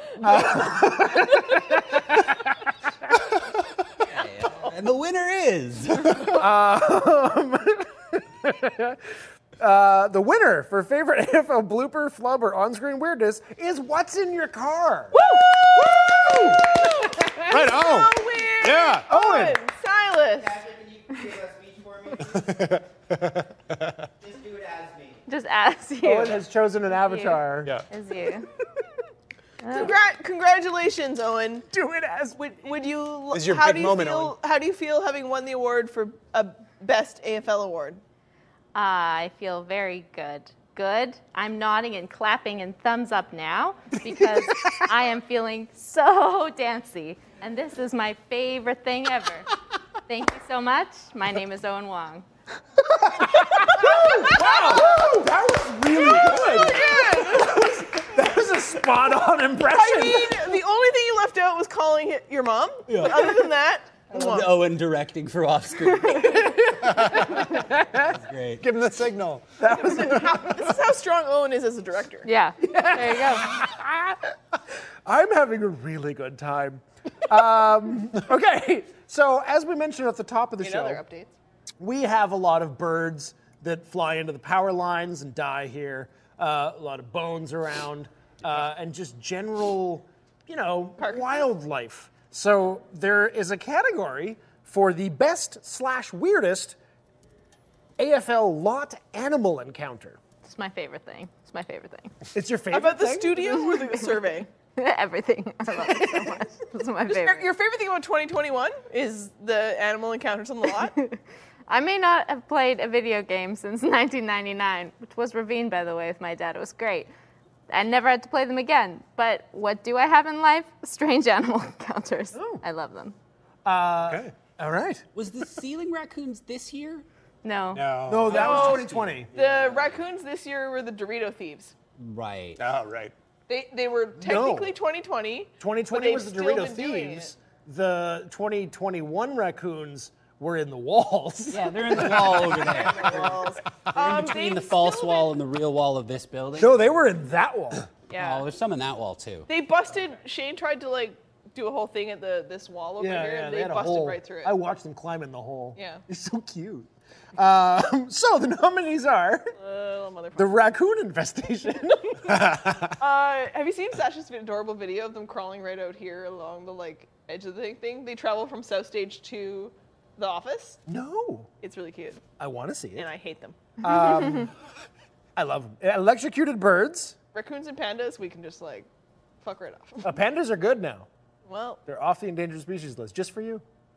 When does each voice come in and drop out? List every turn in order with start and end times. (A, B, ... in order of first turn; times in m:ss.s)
0:00.2-0:02.7 A
0:04.0-0:06.4 B
0:06.2-0:09.0 A
0:09.6-0:17.4 A
0:15.1-0:20.6 C
0:17.5-0:19.5 D
0:19.1-0:19.5 A
0:20.3-0:22.9 E
0:22.2-0:24.0 D
0:24.2-0:25.2 E
0:25.3-0:26.4 F
0:26.0-0:27.7 A
0:27.0-0:28.5 F
0:29.6-0:29.9 F
0:29.7-0:31.7 C
0:31.7-0:32.4 A
0:32.4-0:38.0 C
0:33.3-0:34.4 D
0:38.7-0:49.5 F
0:50.1-0:52.2 F
0:52.8-1:00.4 A
0:56.1-0:57.6 C
0:59.6-1:04.6 C
1:02.9-1:03.5 B
1:04.1-1:06.6 B
1:06.4-1:06.7 A
1:06.9-1:07.2 D
1:07.3-1:08.6 B
1:07.5-1:08.1 A
1:08.6-1:09.6 D
1:09.6-1:10.6 A
1:09.7-1:12.3 C
1:12.2-1:13.5 F
1:12.6-1:21.0 A
1:20.6-1:21.3 C
1:21.8-1:36.8 A
1:31.0-1:31.4 C
1:38.0-1:40.2 A
1:40.4-1:42.1 F
1:42.3-1:43.5 A
1:42.7-1:44.5 C
1:43.6-1:44.1 F
1:44.8-1:47.5 F
1:47.1-1:50.9 C
1:51.0-1:57.1 F
1:57.7-2:03.1 F
2:02.3-2:02.6 A
2:03.6-2:05.0 A
2:04.0-2:04.4 D
2:05.1-2:07.0 B
2:07.4-2:07.8 F
2:07.7-2:08.9 D
2:08.1-2:09.3 A
2:08.3-2:11.7 C
2:08.5-2:09.3 B
2:09.5-2:09.8 D
2:12.0-2:12.6 B
2:12.6-2:13.1 D
2:13.5-2:17.3 C
2:14.2-2:14.7 A
2:15.6-2:23.4 A
2:21.5-2:27.0 B
2:22.7-2:25.4 C
2:26.6-2:27.9 A
2:28.1-2:28.4 C
2:28.2-2:29.5 B
2:29.5-2:34.6 C
2:33.0-2:39.5 A
2:35.8-2:36.0 C
2:39.6-2:40.6 C
2:40.4-2:42.4 A
2:42.4-2:42.9 D
2:43.0-2:50.8 C
2:50.9-2:51.5 A
2:51.6-2:52.2 C
2:52.4-2:53.1 A
2:53.0-2:53.7 C
2:53.8-2:54.5 A
2:55.4-2:57.2 A
2:57.3-2:58.9 C
2:59.4-3:00.2 C
3:00.0-3:01.1 A
3:01.5-3:01.8 C
3:01.8-3:03.6 A